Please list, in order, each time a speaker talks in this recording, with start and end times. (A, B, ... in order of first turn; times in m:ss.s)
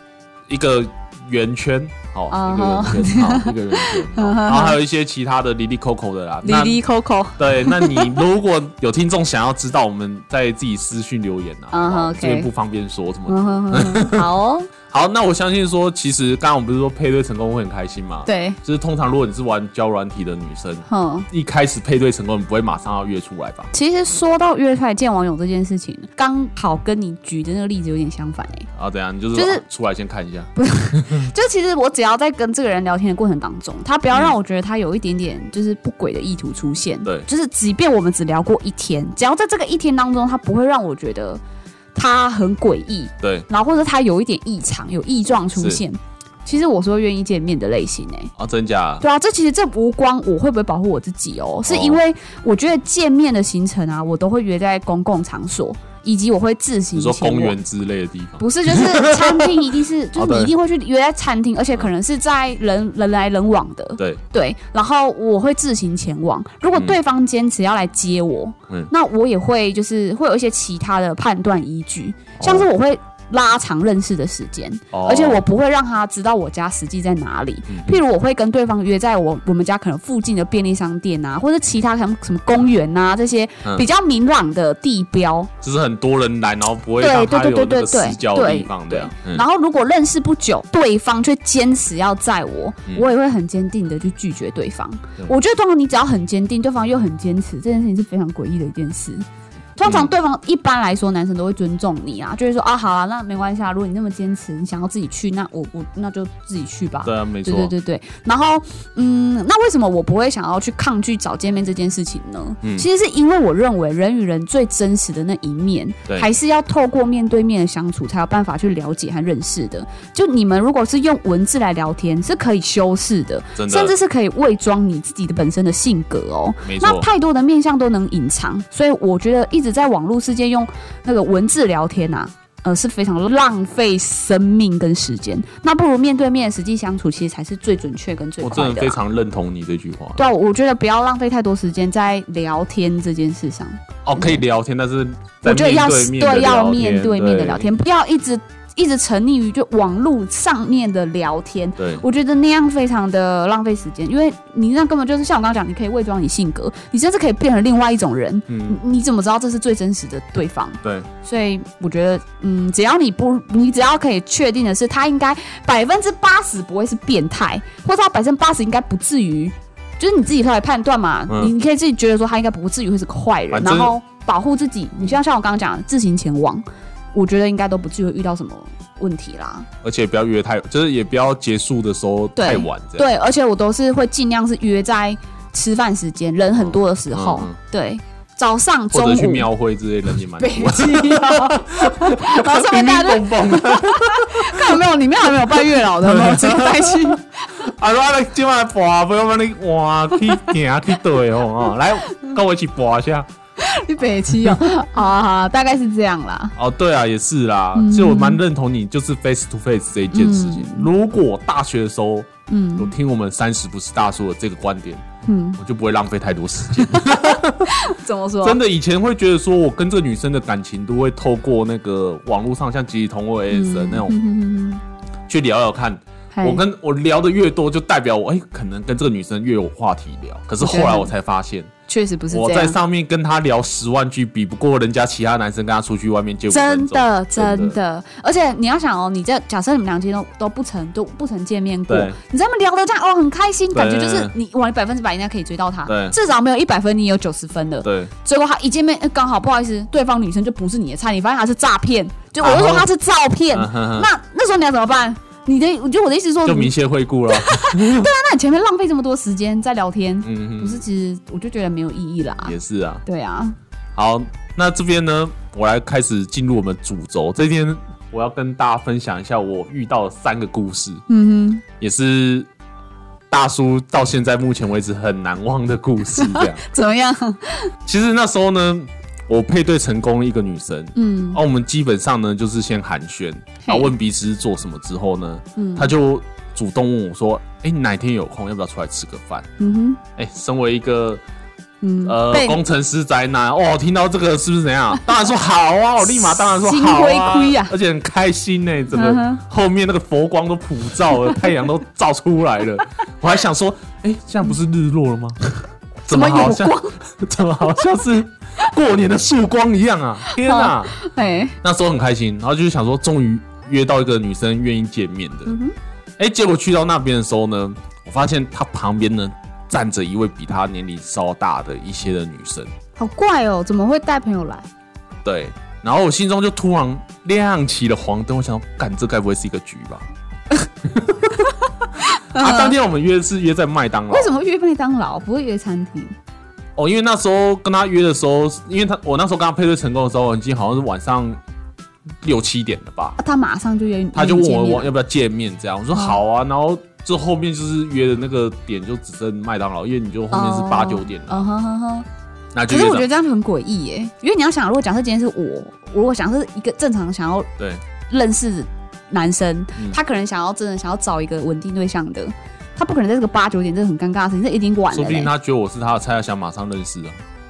0:00.5-0:06.8 A
0:02.3-0:04.8 B
0:06.4-0:08.2 B
0:07.4-0:14.3 A
0:11.7-0:12.5 B
0:13.3-0:14.7 B
0:14.9-0:23.7 A
0:18.2-0:18.6 B
0:20.9-0:21.3 B
0:23.7-0:28.7 B
0:28.7-0:31.3 A
0:29.3-0:29.6 B
0:30.6-0:41.4 B
0:41.9-0:48.3 B
0:43.2-0:43.4 A
0:45.5-0:45.8 A
0:48.4-0:49.0 A
0:49.0-0:57.6 B
0:51.6-0:52.0 A
0:57.0-1:00.5 A
0:58.4-1:25.5 B
1:12.4-1:12.7 A
1:14.9-1:15.4 A
1:17.7-1:18.0 A
1:25.6-1:29.4 A
1:27.0-1:39.2 B
1:39.8-2:19.0 B
1:39.8-1:40.1 A
1:47.0-1:47.7 A
2:03.6-2:03.9 A
2:06.6-2:07.1 A
2:18.4-2:20.2 A
2:20.2-2:24.4 B
2:24.0-2:27.7 A
2:25.4-2:56.6 B
2:31.8-2:32.0 A
2:38.5-2:38.8 A
2:40.8-2:41.1 A
2:51.3-2:51.5 A
2:53.5-2:53.9 A
2:57.1-2:59.7 B
2:59.8-3:03.0 A
3:02.4-3:09.5 B
3:06.6-3:07.6 A
3:08.9-3:23.3 A
3:10.4-3:17.5 B
3:23.6-3:26.5 B
3:24.3-3:24.6 A
3:26.6-3:35.0 A
3:27.7-3:28.4 B
3:30.1-3:30.9 B
3:32.5-3:32.9 B
3:35.2-3:35.6 B
3:35.6-3:37.8 A
3:36.8-3:38.6 B
3:38.4-3:44.2 A
3:43.5-3:44.8 B
3:45.3-3:51.7 A
3:46.3-3:46.6 B
3:50.6-3:51.1 B
3:51.9-3:52.8 B
3:52.3-3:57.8 A
3:56.5-4:16.7 B
4:01.9-4:02.2 A
4:03.7-4:04.3 A
4:05.9-4:06.2 A
4:07.8-4:08.1 A
4:12.4-4:12.9 A
4:13.5-4:14.1 A
4:16.4-4:18.1 A
4:17.3-4:23.6 B
4:20.2-4:20.8 A
4:22.4-4:23.0 A
4:24.0-4:31.0 A
4:31.1-4:31.6 B
4:31.8-4:32.5 A
4:33.3-4:36.6 A
4:36.1-4:37.7 B
4:37.8-4:49.5 A
4:40.9-4:41.4 B
4:43.6-4:43.9 B
4:45.6-4:45.9 B
4:49.6-4:50.0 B
4:50.2-4:51.2 A
4:51.8-4:52.6 B
4:52.0-5:05.4 A
4:56.1-4:57.7 B
4:58.9-4:59.4 B
5:06.0-5:11.0 A
5:06.1-5:07.0 B
5:10.2-5:11.5 B
5:11.6-5:15.5 A
5:15.5-5:15.7 B
5:16.2-5:22.7 A
5:23.0-5:24.7 B
5:25.2-5:30.0 A
5:30.8-5:31.4 A
5:32.0-5:32.7 B
5:32.3-5:34.3 A
5:34.1-5:36.1 B
5:36.8-5:41.4 A
5:42.2-5:43.2 A
5:43.2-5:44.9 B
5:44.1-5:51.5 A
5:50.3-5:52.0 B
5:52.5-5:53.1 A
5:52.7-5:57.5 B
5:58.1-6:05.3 B
6:04.9-6:07.2 A